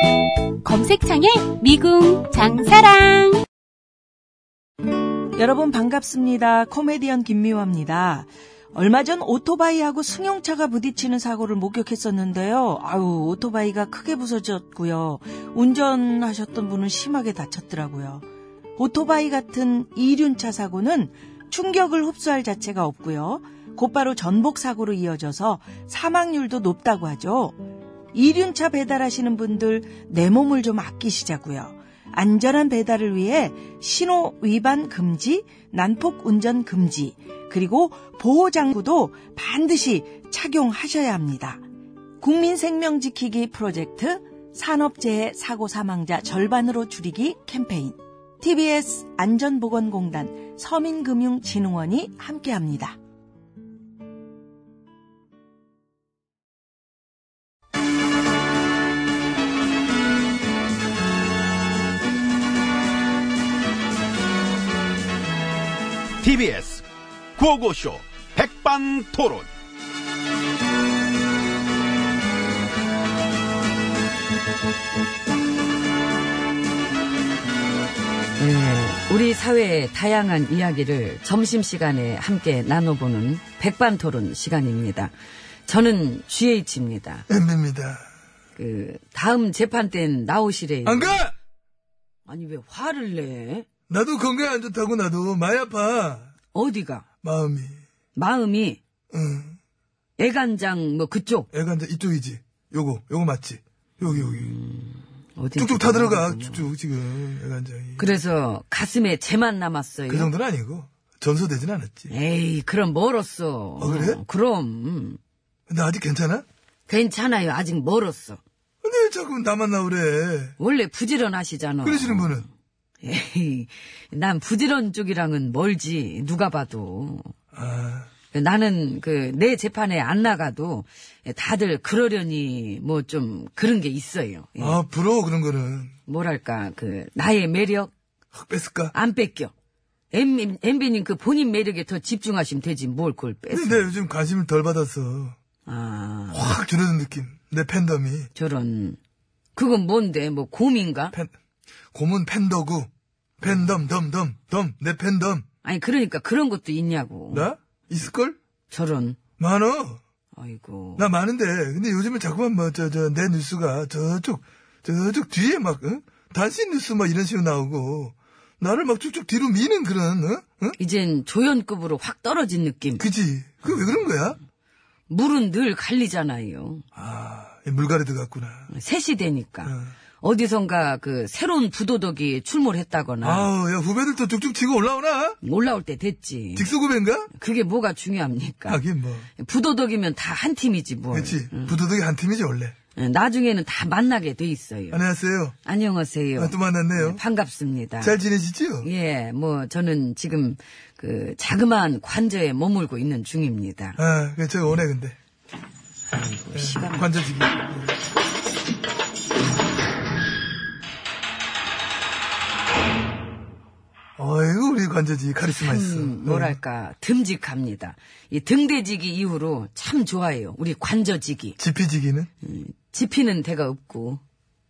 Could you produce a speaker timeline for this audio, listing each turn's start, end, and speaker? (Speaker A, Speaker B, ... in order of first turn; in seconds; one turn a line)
Speaker A: 0.6-3.4
Speaker B: 5.4-18.2
Speaker B: 18.8-27.6
Speaker B: 28.1-41.6
Speaker B: 42.2-53.0
Speaker C: 66.2-66.8
Speaker C: 67.4-69.4
Speaker D: 78.4-85.1
Speaker D: 85.7-87.2
Speaker E: 87.3-88.0
Speaker D: 88.6-91.2
Speaker E: 90.8-91.3
Speaker D: 92.2-93.7
Speaker E: 93.9-96.3
Speaker D: 96.5-97.0
Speaker E: 97.2-97.8
Speaker D: 98.1-98.8
Speaker E: 99.1-99.6
Speaker D: 100.2-101.5
Speaker E: 101.5-104.5
Speaker D: 104.1-106.7
Speaker E: 105.5-108.2
Speaker D: 108.0-110.3
Speaker E: 110.1-112.1
Speaker D: 112.1-115.2
Speaker E: 113.8-114.2
Speaker E: 115.7-116.5
Speaker D: 116.9-118.4
Speaker E: 118.8-120.5
Speaker D: 120.6-122.5
Speaker E: 121.8-122.5
Speaker D: 123.0-127.3
Speaker E: 127.5-128.1
Speaker D: 128.3-134.8
Speaker E: 134.6-135.9
Speaker D: 136.1-137.9
Speaker E: 138.3-138.9
Speaker D: 138.9-139.5
Speaker D: 140.1-143.9
Speaker E: 143.5-145.3
Speaker D: 145.7-146.6
Speaker E: 146.3-148.3
Speaker D: 148.3-149.0
Speaker D: 149.6-151.1
Speaker E: 151.9-152.9
Speaker E: 153.4-155.4
Speaker D: 155.6-157.5
Speaker E: 157.3-158.4
Speaker D: 158.7-159.2
Speaker E: 159.4-160.0
Speaker D: 160.3-161.1
Speaker E: 161.0-170.8
Speaker D: 170.8-173.1
Speaker E: 173.0-174.4
Speaker D: 175.1-176.8
Speaker E: 176.9-178.7
Speaker D: 178.7-183.5
Speaker E: 179.6-179.9
Speaker E: 183.2-185.4
Speaker D: 185.4-186.7
Speaker E: 186.6-187.3
Speaker D: 187.3-188.8
Speaker E: 188.7-189.3
Speaker D: 189.4-191.8
Speaker E: 191.1-192.8
Speaker D: 192.9-195.0
Speaker E: 194.9-195.6
Speaker D: 195.6-198.2
Speaker E: 196.4-197.2
Speaker E: 198.0-198.9
Speaker D: 198.8-204.0
Speaker E: 204.0-205.2
Speaker D: 206.1-207.1
Speaker E: 206.5-207.9
Speaker E: 214.2-216.6
Speaker D: 215.5-221.6
Speaker E: 221.6-222.3
Speaker D: 222.4-224.2